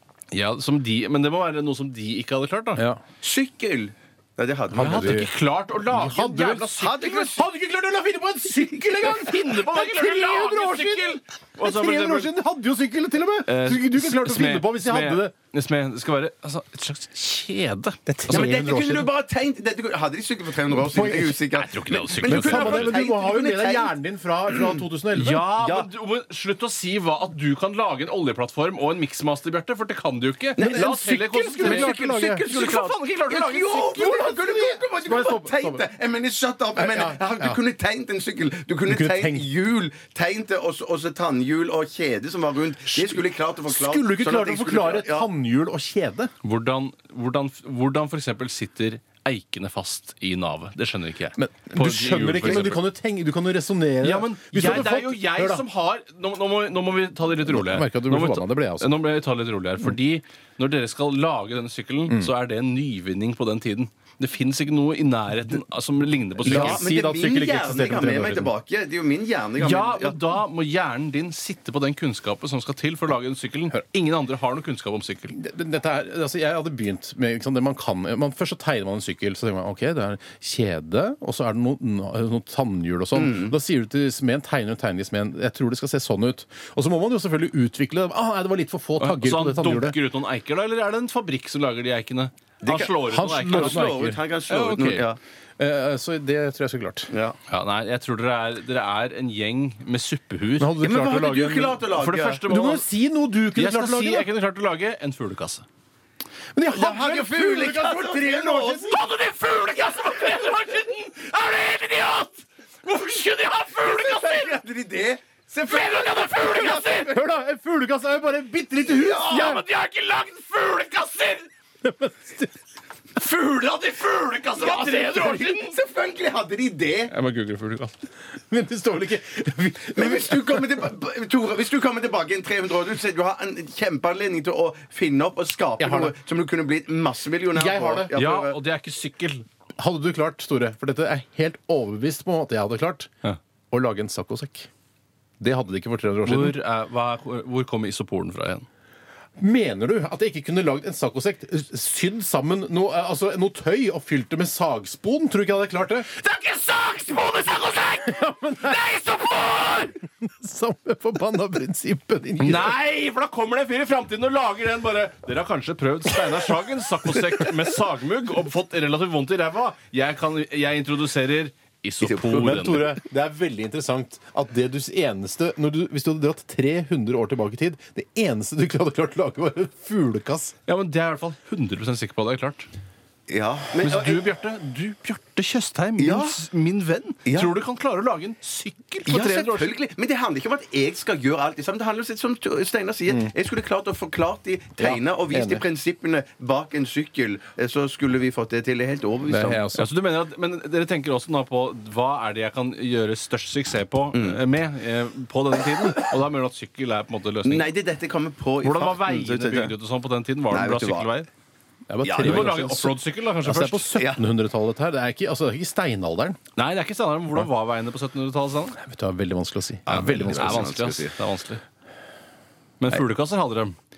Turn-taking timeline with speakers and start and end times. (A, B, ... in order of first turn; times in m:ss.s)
0:00.3-0:02.8 A
0:02.8-0:03.0 B
0:03.2-0:05.2 C
0:04.7-0:05.3 B
0:04.7-0:07.3 A
0:05.9-0:15.3 B
0:06.8-0:07.4 C
0:09.0-0:12.3 A
0:13.5-0:18.0 A
0:18.1-0:19.1 B
0:18.3-0:23.9 C
0:20.7-0:21.4 B
0:21.5-0:23.0 A
0:22.2-0:25.5 B
0:24.5-0:24.8 C
0:25.2-0:34.3 A
0:25.6-0:25.9 C
0:30.6-0:32.5 B
0:30.6-0:45.3 C
0:34.2-0:35.8 B
0:36.8-0:37.6 B
0:38.9-0:39.5 B
0:42.9-0:46.3 B
0:46.4-0:52.8 A
0:51.4-0:55.6 B
0:54.0-1:06.8 A
0:57.5-0:59.0 B
1:02.1-1:02.3 B
1:06.4-1:10.4 C
1:06.4-1:08.5 B
1:09.6-1:15.4 A
1:15.3-1:30.0 B
1:23.2-1:23.5 C
1:29.0-1:33.9 A
1:32.6-1:35.2 C
1:33.1-1:34.2 B
1:34.5-1:35.0 A
1:35.6-1:37.1 B
1:37.1-1:37.4 C
1:37.5-1:40.8 A
1:40.6-1:41.8 B
1:40.8-1:42.4 C
1:41.9-1:42.8 A
1:42.4-1:44.3 B
1:43.6-1:45.7 A
1:46.5-1:49.0 B
1:46.7-1:48.9 C
1:48.9-1:54.6 A
1:53.8-1:57.1 C
1:55.7-1:57.2 A
1:57.0-1:59.6 B
1:58.9-1:59.5 C
1:59.1-2:01.5 A
2:01.8-2:02.5 B
2:03.2-2:05.8 A
2:04.5-2:07.1 C
2:07.1-2:07.9 A
2:08.5-2:10.8 B
2:10.0-2:18.6 C
2:15.8-2:16.1 B
2:17.5-2:18.1 B
2:18.1-2:19.4 A
2:19.8-2:23.1 B
2:23.7-2:24.7 B
2:25.4-2:26.6 B
2:26.2-2:28.7 A
2:29.4-2:36.1 B
2:36.1-2:40.0 A
2:38.1-2:38.8 B
2:40.0-2:42.8 B
2:42.4-2:53.0 A
2:52.0-3:00.6 B
3:00.7-3:02.7 A
3:03.3-3:04.3 C
3:03.8-3:09.8 A
3:06.0-3:06.4 C
3:07.3-3:07.6 C
3:09.1-3:19.6 C
3:14.8-3:15.6 B
3:19.3-3:19.9 B
3:19.8-3:27.7 A
3:24.1-3:24.4 C
3:27.4-3:29.7 C
3:28.6-3:31.3 A
3:30.5-3:31.1 C
3:31.9-3:36.4 B
3:32.0-3:32.8 C
3:32.2-3:33.9 A
3:34.0-3:34.2 C
3:36.6-3:38.8 A
3:38.8-3:40.8 B
3:39.9-3:41.6 A
3:39.9-3:41.1 C
3:42.8-3:43.8 A